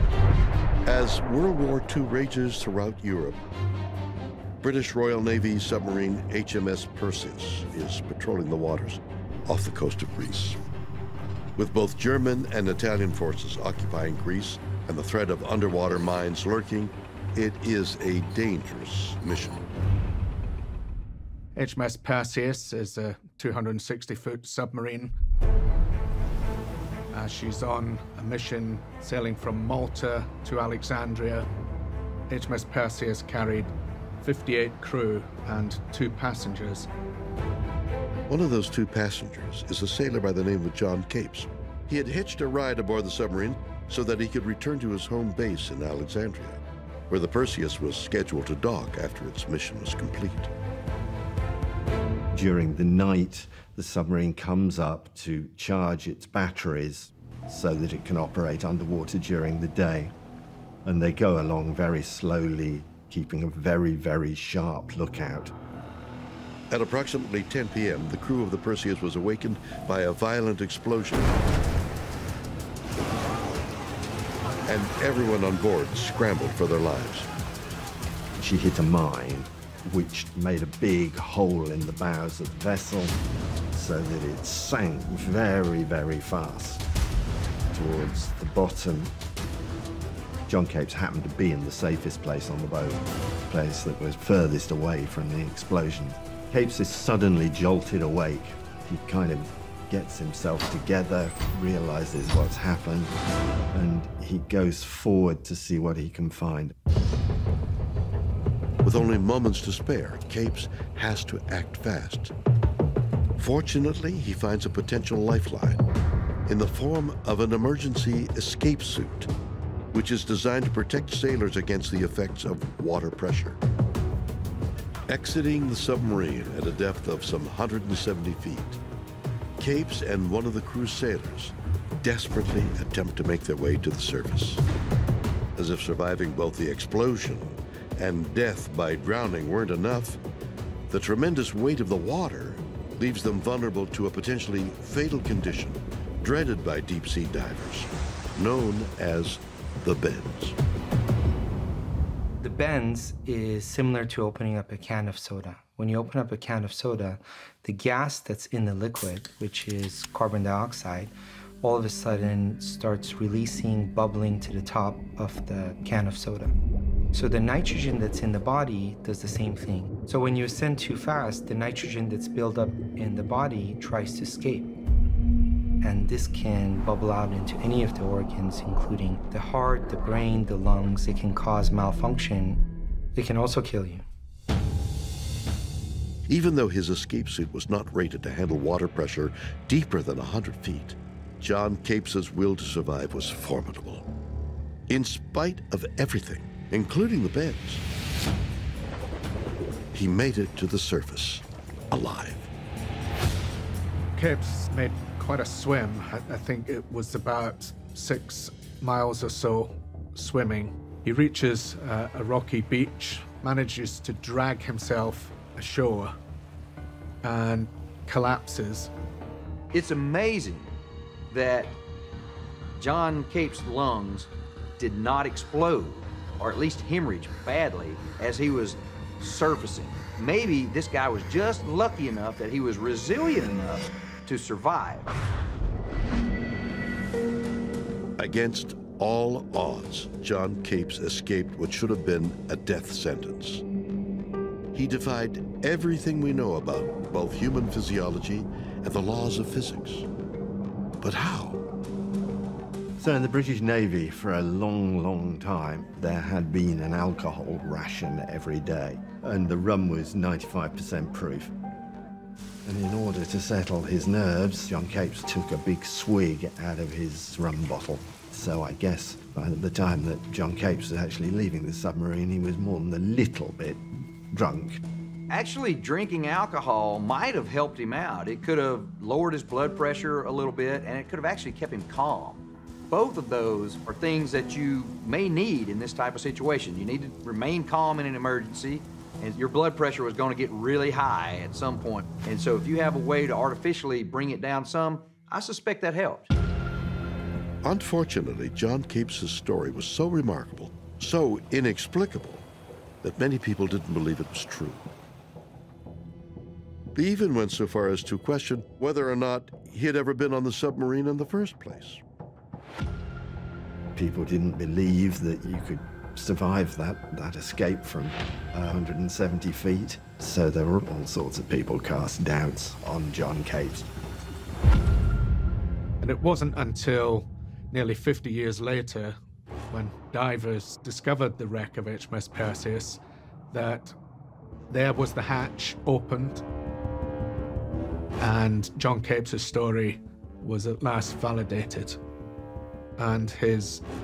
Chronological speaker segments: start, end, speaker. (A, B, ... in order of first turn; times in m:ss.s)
0:00.8-0:03.4 A
0:04.6-0:10.6 A
0:11.6-0:19.6 A
0:21.5-0:25.1 B
0:27.1-0:31.5 B
0:32.3-0:36.9 B
0:38.3-0:50.5 A
0:52.3-1:00.1 C
1:00.8-1:05.5 C
1:06.7-1:11.4 A
1:14.7-1:17.3 A
1:18.4-1:23.2 C
1:23.7-1:26.8 C
1:27.7-1:29.1 C
1:30.5-1:43.1 C
1:43.7-1:46.7 C
1:48.8-1:52.3 A
1:53.4-1:55.8 A
1:56.5-1:59.3 A
1:59.9-2:03.6 A
2:05.1-2:08.8 A
2:09.6-2:14.6 A
2:15.6-2:20.2 A
2:20.9-2:30.6 A
2:32.4-2:46.5 D
2:47.1-2:54.7 D
2:55.8-3:02.6 D
3:03.1-3:04.0 D
3:06.3-3:14.0 A
3:14.9-3:17.8 A
3:19.9-3:22.5 A
3:24.2-3:36.1 B
3:37.2-3:38.9 B
3:39.7-3:40.7 E
3:41.3-3:41.8 E
3:42.8-3:55.1 E
3:58.2-4:03.6 A
4:04.7-4:10.1 A
4:11.0-4:11.6 A
4:13.0-4:21.5 C
4:22.6-4:34.8 C
4:35.3-4:56.3 E
4:57.6-5:02.4 A
5:03.0-5:04.9 A
5:06.9-5:12.0 A
5:14.0-5:23.9 C
5:26.0-5:29.2 B
5:29.7-5:33.0 B
5:33.5-5:33.9 B
5:34.7-5:36.4 B
5:38.2-5:42.0 B
5:43.0-5:43.8 B